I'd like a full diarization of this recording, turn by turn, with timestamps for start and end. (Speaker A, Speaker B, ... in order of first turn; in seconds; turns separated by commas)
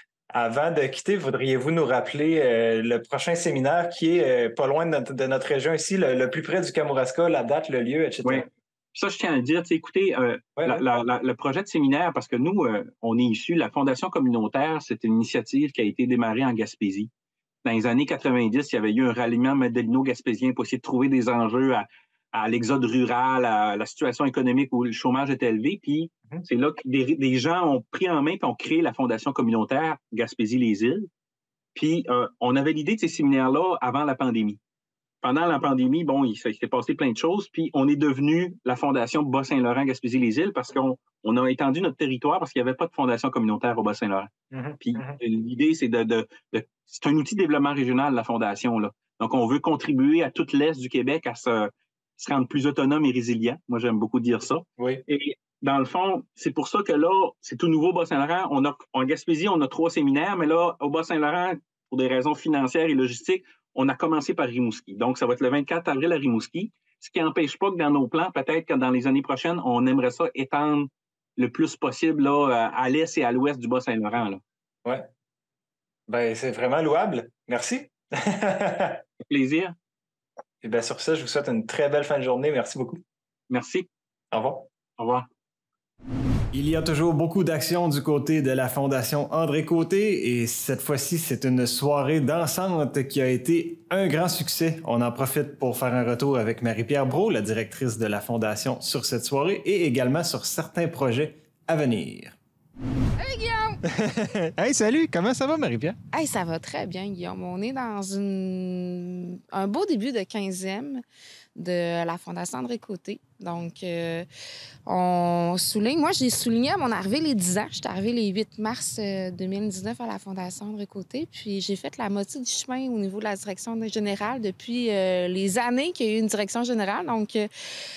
Speaker A: 0.3-8.4, Speaker B: 8.2-17.1, Speaker B: 17.6-31.1, Speaker B: 31.8-34.6, Speaker B: 35.2-74.4, Speaker A: 44.5-45.0, Speaker A: 76.1-79.0, Speaker B: 79.2-79.8, Speaker A: 80.6-83.0, Speaker B: 83.5-83.9, Speaker A: 84.3-84.6, Speaker B: 85.0-85.2, Speaker A: 86.5-102.3, Speaker C: 103.2-103.8, Speaker A: 103.8-106.0, Speaker C: 106.1-111.0, Speaker C: 111.5-114.3, Speaker C: 114.8-127.5